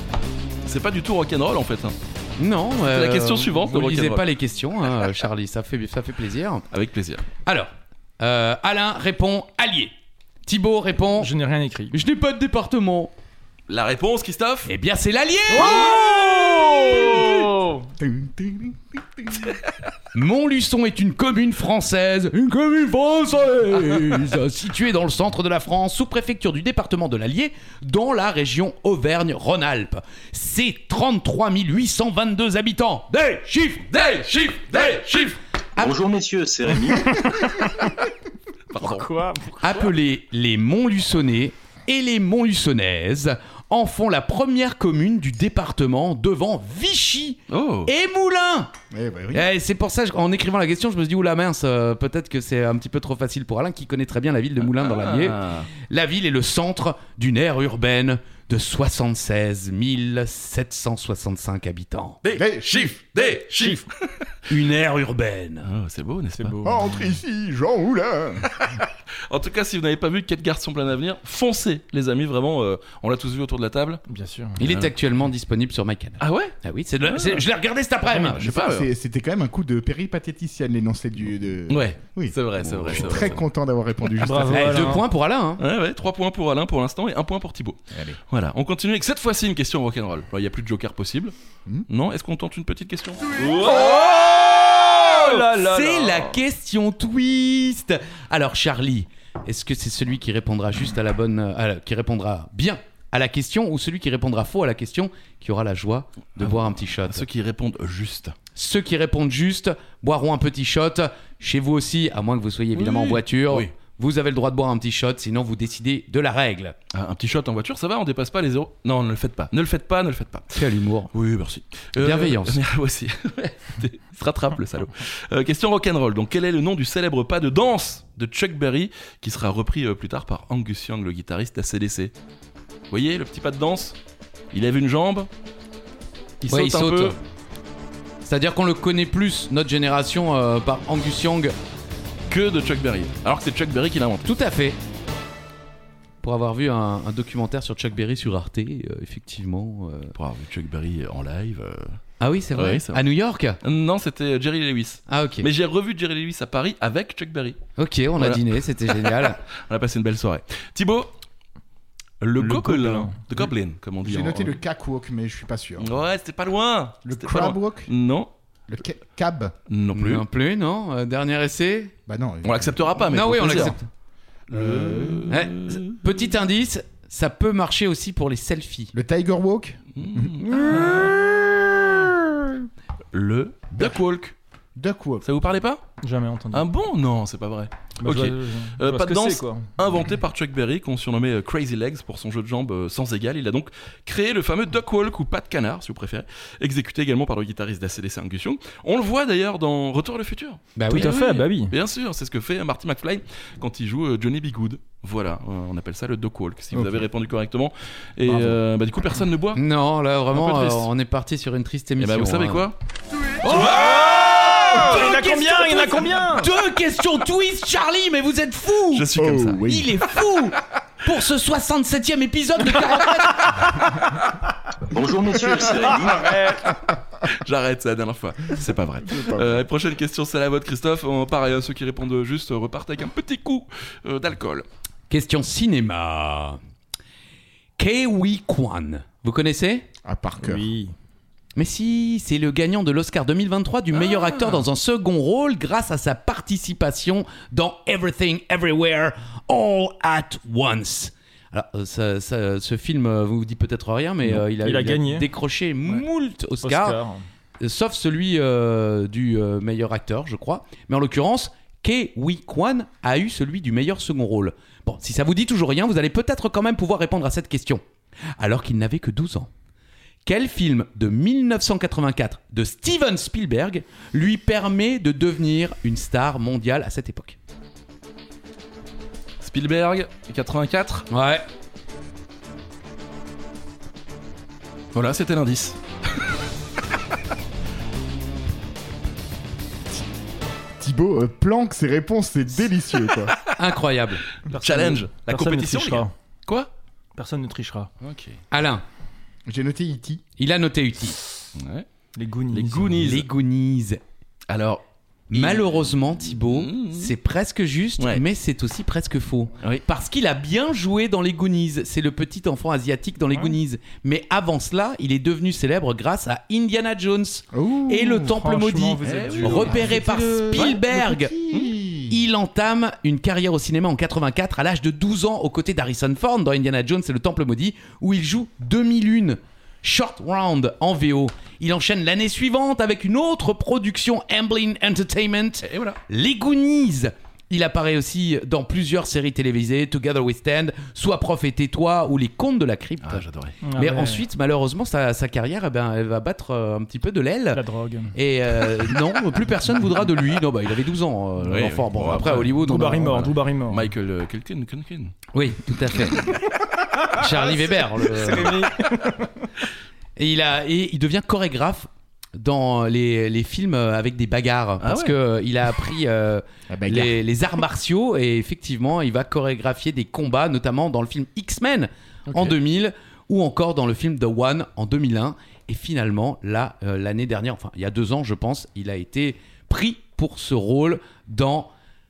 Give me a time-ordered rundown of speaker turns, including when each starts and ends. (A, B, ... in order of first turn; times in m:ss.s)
0:00.6-0:02.0 A
0:02.4-0:06.6 B
0:02.8-0:04.3 A
0:06.7-0:07.2 A
0:07.4-0:09.9 B
0:10.5-0:11.3 B
0:11.2-0:12.0 C
0:11.9-0:13.1 B
0:13.7-0:14.7 A
0:14.6-0:17.4 B
0:15.5-0:17.9 C
0:15.9-0:17.2 A
0:18.0-0:19.6 D
0:20.1-0:34.0 B
0:33.9-0:35.4 A
0:34.7-0:35.9 B
0:35.8-0:37.2 E
0:37.1-0:37.8 C
0:38.7-0:39.1 A
0:38.8-0:39.8 C
0:39.6-0:48.7 B
0:47.5-0:47.9 A
0:48.9-0:49.5 D
0:49.3-1:02.2 B
0:54.7-0:55.7 A
1:02.2-1:04.2 A
1:02.3-1:03.0 D
1:03.3-1:03.8 C
1:04.5-1:05.7 B
1:05.6-1:06.6 A
1:06.4-1:07.2 C
1:06.6-1:08.6 D
1:08.5-1:14.0 A
1:14.1-1:14.6 C
1:14.6-1:18.5 B
1:14.6-1:14.9 A
1:16.2-1:17.4 A
1:18.3-1:25.0 D
1:18.4-1:18.9 A
1:21.7-1:23.4 A
1:22.6-1:23.3 B
1:24.2-1:25.0 C
1:24.5-1:25.6 B
1:25.6-1:31.3 A
1:27.9-1:28.2 D
1:31.9-1:35.5 A
1:33.6-1:34.2 C
1:34.8-1:36.3 C
1:35.5-1:47.2 B
1:46.4-1:48.4 A
1:48.6-1:56.8 B
1:52.8-1:53.7 A
1:56.9-2:12.1 A
2:00.5-2:01.1 B
2:02.0-2:02.6 B
2:12.9-2:14.0 A
2:14.5-2:15.3 A
2:16.4-2:17.2 A
2:16.4-2:17.2 B
2:18.2-2:21.5 B
2:22.3-2:24.4 A
2:24.2-2:24.8 B
2:26.2-2:30.1 B
2:30.2-2:32.0 A
2:32.2-2:33.6 B
2:32.6-2:33.0 A
2:33.6-2:37.6 A
2:35.1-2:35.5 B
2:37.8-2:39.4 B
2:38.2-2:41.1 A
2:42.2-2:44.6 A
2:42.4-2:43.2 C
2:44.0-2:45.9 D
2:45.8-2:48.3 A
2:47.0-2:47.9 D
2:48.7-2:49.6 D
2:49.7-2:50.2 A
2:49.9-2:52.0 B
2:52.1-2:53.0 D
2:52.4-2:53.8 A
2:53.1-2:53.9 B
2:54.5-2:56.3 A
2:54.5-2:55.3 D
2:55.3-2:58.9 B
2:58.9-3:02.1 D
3:00.0-3:01.2 A
3:00.6-3:01.1 C
3:03.1-3:04.4 A
3:04.8-3:05.3 D
3:05.2-3:05.8 A
3:06.0-3:06.7 C
3:06.5-3:29.6 A
3:08.0-3:09.7 C
3:20.8-3:21.2 B
3:20.9-3:21.8 C
3:26.7-3:27.0 D
3:29.6-3:32.7 B
3:30.3-3:30.9 A
3:32.0-3:32.8 A
3:33.4-3:34.4 A
3:33.4-3:43.8 B
3:33.5-3:36.5 C
3:38.9-3:39.8 A
3:39.2-3:39.9 D
3:44.9-3:46.4 E
3:46.0-3:46.8 C
3:47.2-3:54.7 A
3:49.1-3:49.6 D
3:55.1-3:56.6 B
3:57.8-3:59.9 B
4:00.0-4:00.7 D
4:00.4-4:01.0 C
4:01.6-4:17.0 B
4:04.0-4:04.6 A
4:14.3-4:15.3 C
4:16.6-4:17.2 C
4:17.6-4:27.8 B
4:28.4-4:29.5 B
4:30.2-4:37.4 B
4:39.4-4:41.1 A
4:41.1-4:41.4 B
4:44.9-4:45.8 A
4:50.8-4:53.4 D
4:53.6-4:54.2 B
4:54.5-4:56.1 C
4:54.5-4:56.7 A
4:57.2-4:57.9 C
4:58.0-4:58.4 A
4:58.5-4:58.8 B
4:59.5-5:00.2 D
5:00.4-5:01.2 B
5:01.6-5:01.9 A
5:02.2-5:03.0 C
5:02.5-5:03.3 A
5:03.0-5:04.0 B
5:04.5-5:07.1 A
5:05.3-5:21.3 B
5:08.0-5:08.2 A
5:17.5-5:18.3 D
5:18.2-5:20.0 C
5:19.0-5:20.0 A
5:19.6-5:22.2 D
5:22.1-5:43.2 B
5:35.6-5:36.0 A
5:43.0-5:43.6 A
5:43.6-5:44.3 C
5:43.8-5:53.3 B
5:47.5-5:48.1 C
5:51.4-5:52.6 A
5:52.2-5:53.9 C
5:53.7-5:55.2 A
5:55.3-5:56.4 B
5:57.0-5:59.5 C
5:57.1-5:58.7 B
6:00.2-6:21.7 B
6:04.8-6:05.2 A
6:06.7-6:07.2 D
6:12.3-6:12.6 A